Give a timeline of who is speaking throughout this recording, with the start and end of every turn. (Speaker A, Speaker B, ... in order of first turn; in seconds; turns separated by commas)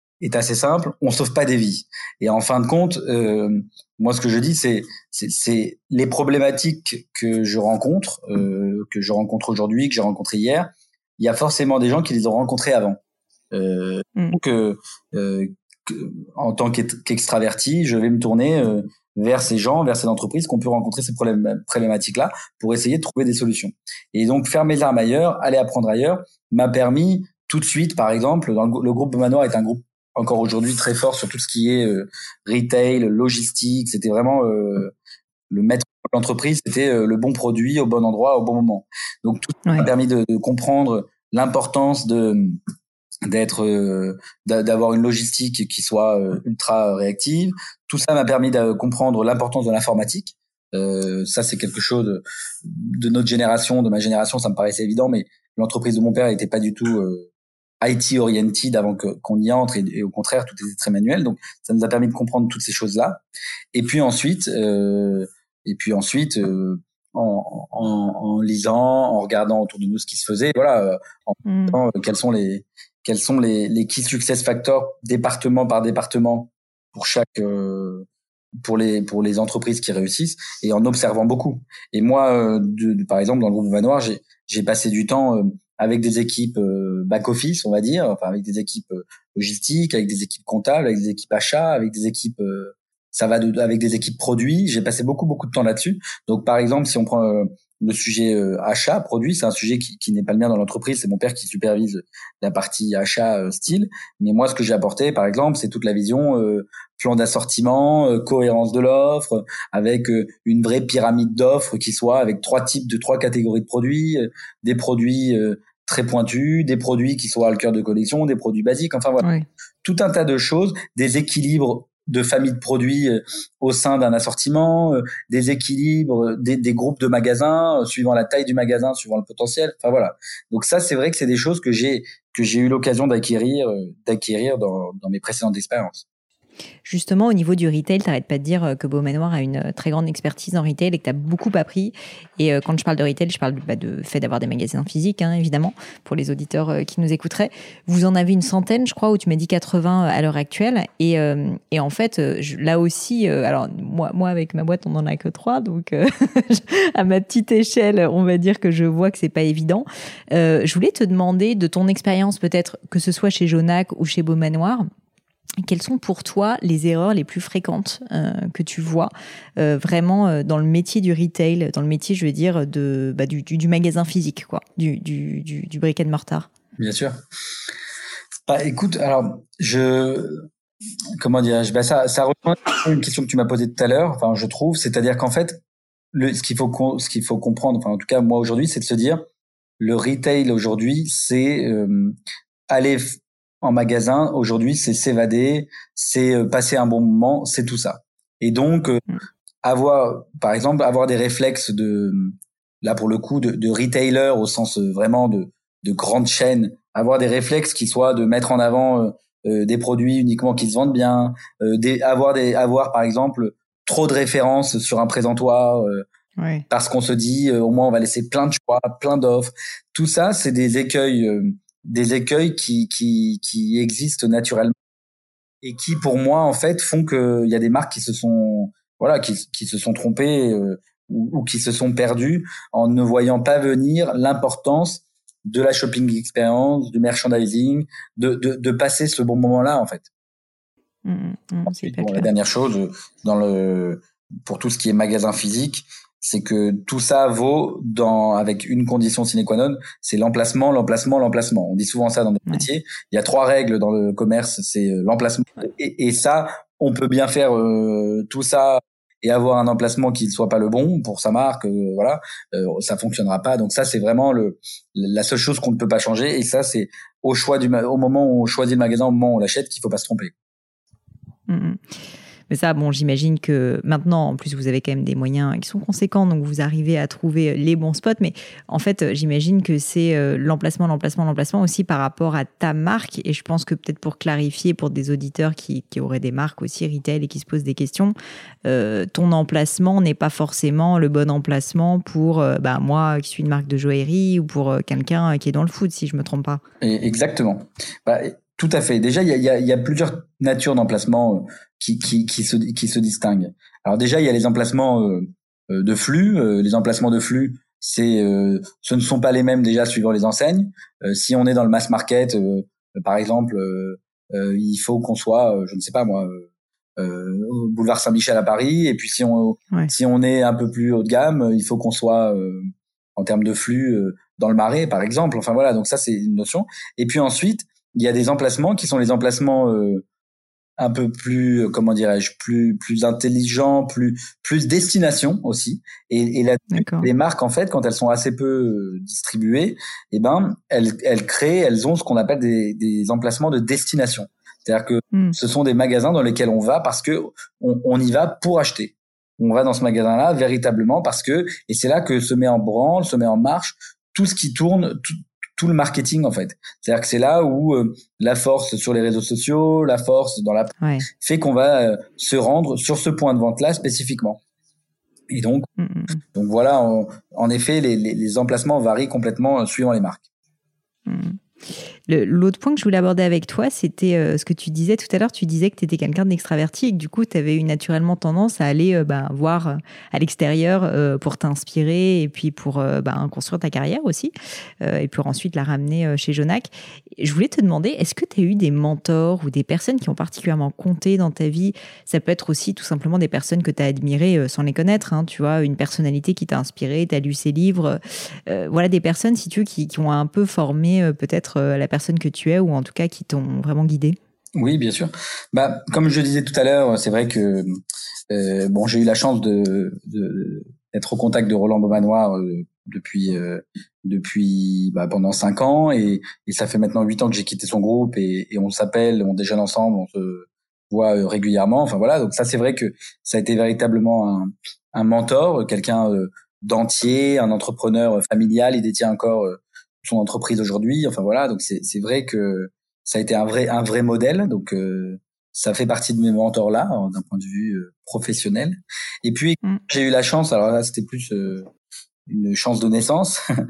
Speaker A: 0.2-13.0, Speaker A: 13.5-34.9, Speaker A: 35.5-42.6, Speaker A: 43.2-57.3, Speaker A: 57.8-63.2, Speaker A: 63.7-78.1, Speaker B: 71.5-71.8, Speaker A: 78.6-119.3, Speaker B: 119.2-119.5, Speaker A: 119.8-136.0, Speaker B: 136.8-164.9, Speaker B: 165.6-176.5, Speaker A: 176.8-177.2, Speaker A: 178.5-180.5, Speaker A: 181.2-185.6, Speaker A: 186.1-189.2, Speaker A: 189.8-192.2, Speaker A: 192.7-199.1, Speaker A: 199.6-216.1, Speaker B: 216.4-216.7, Speaker A: 216.7-224.7, Speaker A: 225.6-240.1, Speaker B: 241.1-242.3, Speaker A: 241.7-270.3, Speaker B: 271.5-271.8, Speaker B: 272.5-288.1, Speaker B: 288.7-296.6, Speaker A: 296.8-316.5, Speaker A: 317.0-330.0, Speaker A: 330.8-364.4, Speaker B: 336.7-337.1, Speaker B: 360.8-361.1, Speaker A: 365.3-365.7, Speaker B: 365.8-366.2, Speaker A: 366.3-370.2, Speaker B: 371.1-371.4, Speaker B: 372.1-404.2, Speaker A: 404.6-407.8, Speaker A: 408.3-441.7, Speaker A: 442.3-443.4